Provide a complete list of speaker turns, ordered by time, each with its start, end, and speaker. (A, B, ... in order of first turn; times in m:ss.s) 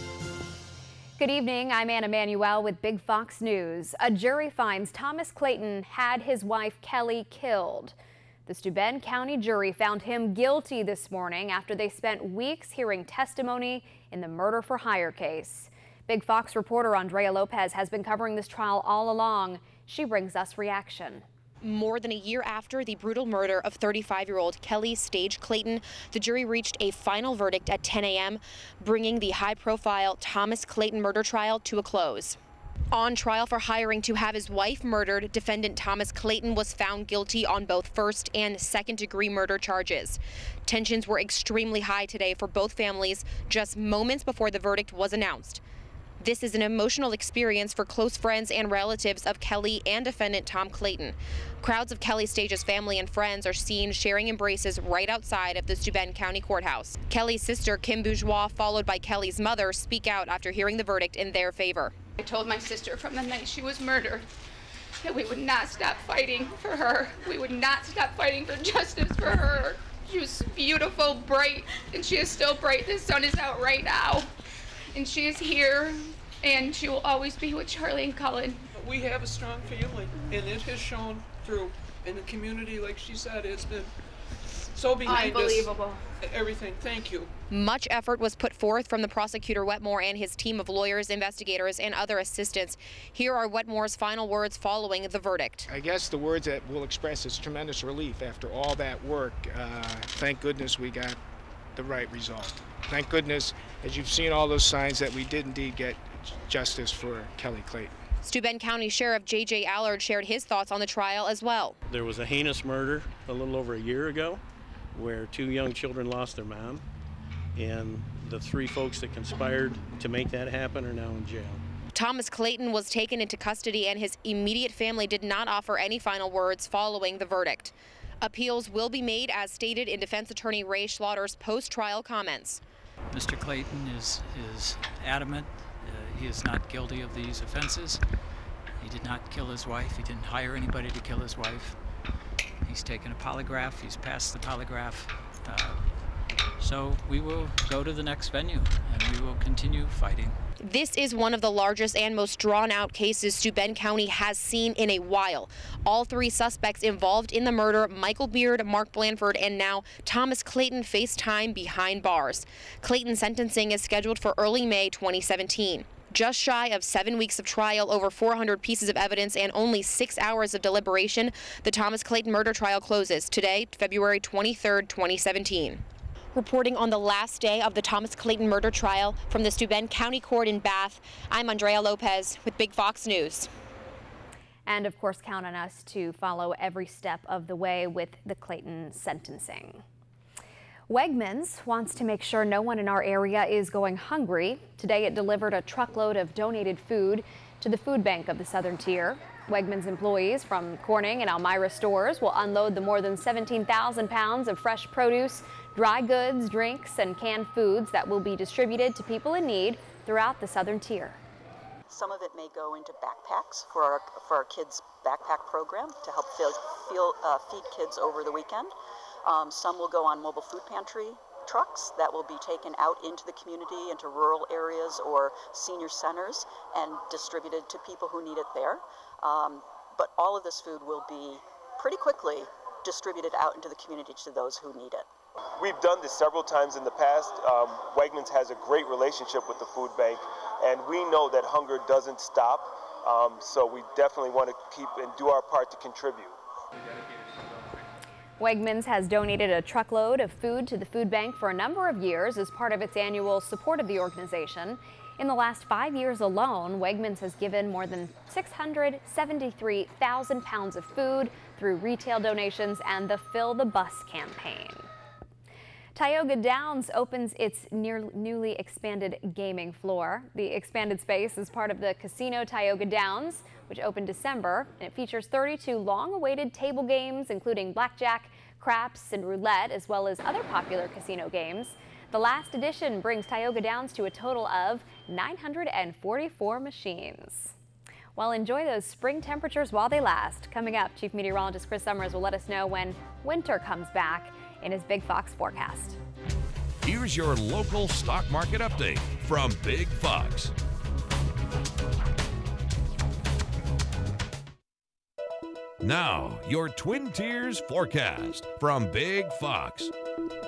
0:01.2-0:08.0 A
0:08.5-0:21.2 A
0:21.6-0:32.4 B
0:32.9-0:45.6 B
0:46.2-1:01.9 B
1:02.2-1:04.3 C
1:05.0-1:14.3 C
1:14.9-1:18.6 C
1:18.8-1:23.9 D
1:24.8-1:27.3 D
1:25.1-1:26.0 C
1:27.5-1:35.7 B
1:35.7-1:41.2 E
1:41.8-1:47.9 E
1:48.2-1:51.8 B
1:51.9-1:54.4 F
1:54.9-1:56.8 F
1:57.6-2:01.6 F
2:01.9-2:12.6 B
2:13.1-2:18.0 G
2:18.8-2:21.8 G
2:22.6-2:25.9 G
2:26.6-2:30.4 G
2:30.6-2:55.8 B
2:56.4-3:03.5 B
3:04.7-3:09.8 A
3:10.9-3:31.2 A
3:31.9-3:55.1 H
3:55.6-4:06.4 I
4:08.4-4:24.9 A
4:26.0-4:47.6 A
4:48.2-4:56.0 A
4:56.8-5:00.5 J
5:05.8-5:09.9 J